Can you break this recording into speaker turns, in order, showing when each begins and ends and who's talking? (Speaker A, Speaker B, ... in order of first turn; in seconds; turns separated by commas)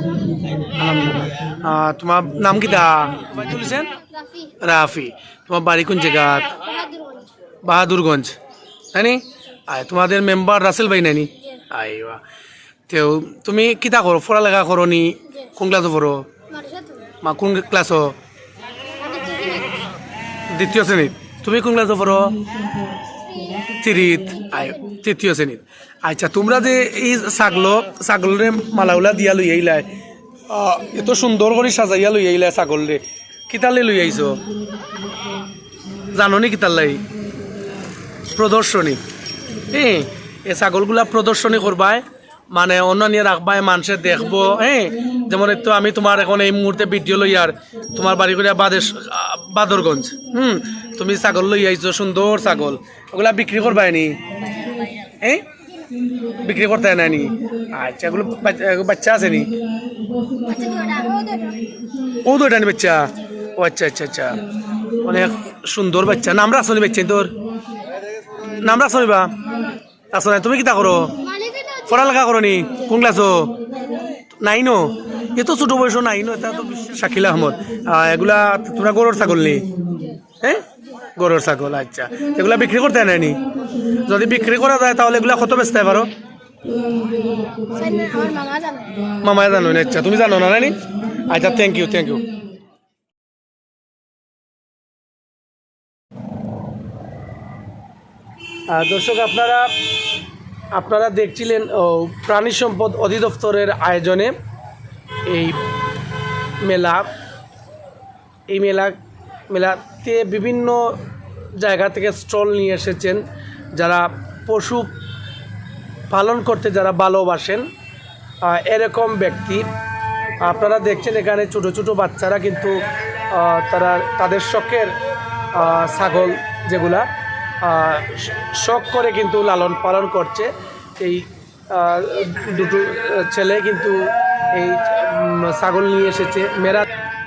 Speaker A: 0.7-3.9, Speaker B: 4.1-4.5, Speaker A: 4.6-6.7, Speaker B: 6.6-7.3, Speaker A: 7.6-8.4, Speaker A: 8.9-12.2, Speaker A: 12.9-16.3, Speaker B: 16.5-17.1, Speaker A: 17.2-18.2, Speaker B: 19.0-19.9, Speaker A: 20.5-22.4, Speaker B: 23.2-23.7, Speaker A: 23.7-29.9, Speaker A: 30.5-34.5, Speaker A: 36.1-37.1, Speaker A: 38.3-39.0, Speaker A: 39.7-54.2, Speaker A: 55.2-55.5, Speaker A: 56.3-59.5, Speaker B: 60.4-61.8, Speaker A: 62.1-64.4, Speaker A: 65.0-67.3, Speaker A: 68.5-69.4, Speaker A: 70.1-71.2, Speaker B: 71.2-71.9, Speaker A: 71.9-73.6, Speaker A: 74.4-79.7, Speaker A: 81.2-83.4, Speaker A: 84.0-86.1, Speaker B: 87.5-89.0, Speaker A: 89.2-92.3, Speaker A: 98.7-99.8, Speaker A: 100.7-104.3, Speaker A: 105.3-105.6, Speaker A: 106.6-107.1, Speaker A: 108.5-109.0, Speaker A: 109.5-111.0, Speaker A: 111.5-114.9, Speaker A: 116.1-117.7, Speaker A: 118.4-119.7, Speaker A: 120.4-122.8, Speaker A: 123.3-125.0, Speaker A: 125.5-127.1, Speaker A: 127.6-136.9